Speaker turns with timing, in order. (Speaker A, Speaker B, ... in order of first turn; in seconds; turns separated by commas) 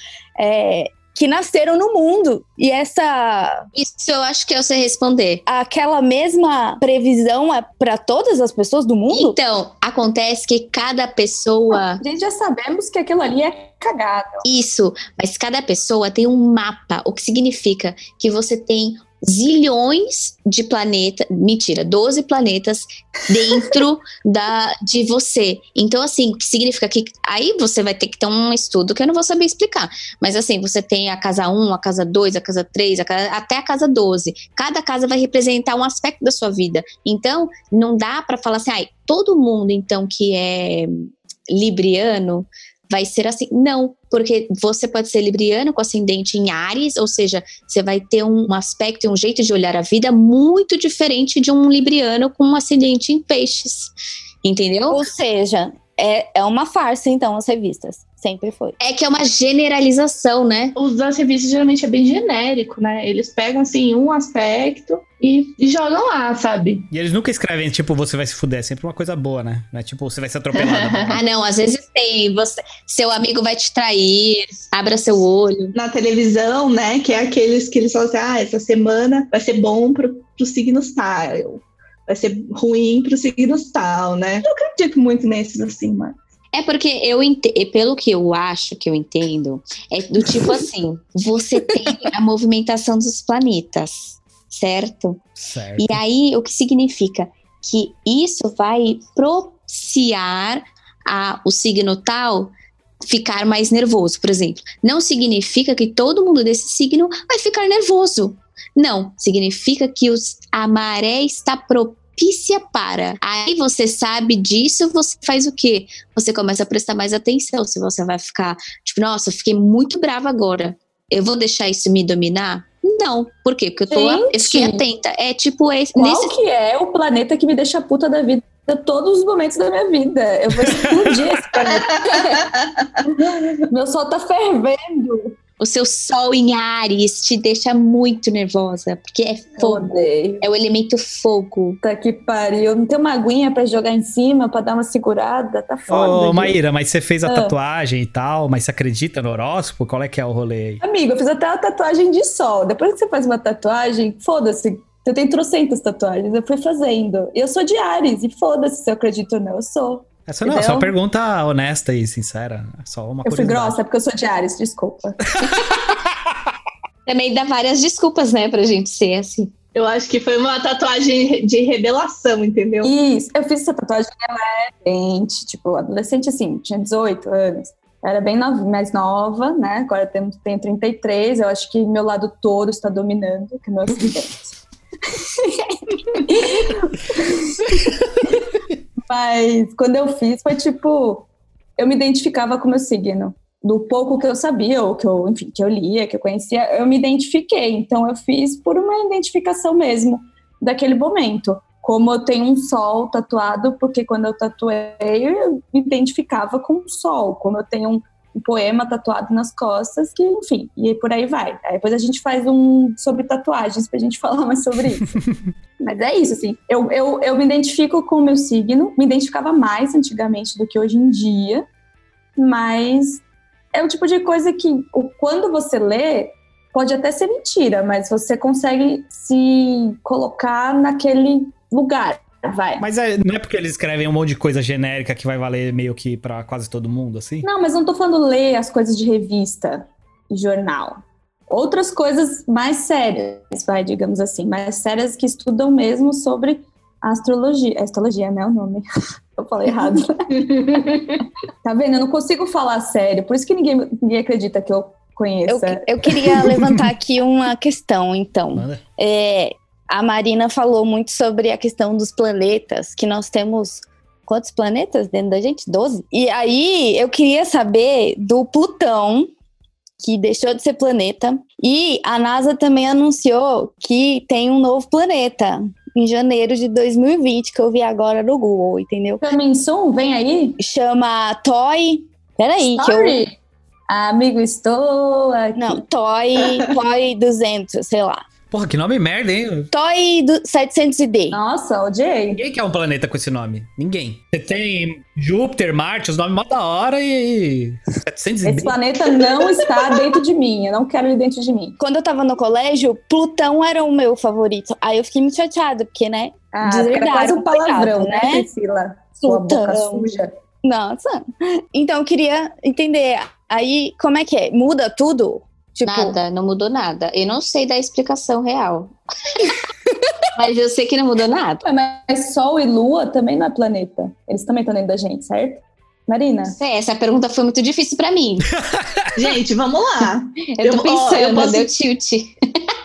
Speaker A: 0.4-3.7, Speaker B: 3.8-5.4, Speaker A: 5.5-9.4, Speaker B: 9.1-12.0, Speaker C: 12.0-14.4, Speaker B: 14.4-53.9, Speaker B: 54.4-55.0, Speaker A: 54.9-58.8, Speaker B: 58.8-60.8, Speaker D: 60.8-66.9, Speaker E: 66.9-71.2, Speaker D: 70.5-71.2, Speaker B: 71.1-75.7, Speaker D: 75.7-86.2, Speaker B: 86.5-95.2, Speaker E: 95.4-96.0, Speaker B: 95.8-102.5, Speaker B: 103.0-126.3, Speaker C: 123.9-124.8, Speaker C: 126.0-132.5, Speaker D: 131.7-132.9, Speaker C: 133.0-135.4, Speaker B: 135.6-141.8, Speaker C: 139.6-140.4, Speaker C: 141.8-146.6, Speaker E: 145.9-150.8, Speaker C: 147.3-147.5, Speaker C: 150.8-160.9, Speaker E: 160.3-163.8, Speaker C: 163.2-165.3, Speaker B: 167.1-169.5, Speaker D: 169.8-172.9, Speaker C: 172.8-184.6, Speaker C: 185.2-188.5, Speaker C: 189.1-215.2, Speaker C: 215.8-221.7, Speaker C: 222.4-223.2, Speaker C: 223.7-232.8, Speaker E: 232.8-237.5, Speaker C: 237.4-248.8, Speaker C: 249.4-250.8, Speaker D: 250.5-251.2, Speaker C: 251.6-256.7, Speaker A: 255.5-269.3, Speaker E: 258.6-258.8, Speaker A: 270.0-279.2, Speaker C: 279.2-280.6, Speaker A: 280.6-283.2, Speaker C: 282.8-283.4, Speaker C: 283.9-285.8, Speaker A: 285.6-288.2, Speaker E: 288.5-289.7, Speaker A: 289.7-291.4, Speaker C: 291.3-292.4, Speaker E: 292.3-298.8, Speaker C: 298.4-301.8, Speaker A: 301.8-308.5, Speaker C: 306.5-310.3, Speaker A: 309.2-310.1, Speaker A: 310.6-316.2, Speaker B: 315.9-318.9, Speaker B: 320.3-321.6, Speaker C: 321.6-326.6, Speaker B: 326.4-328.5, Speaker E: 328.6-329.1, Speaker D: 329.1-331.7, Speaker B: 330.5-332.7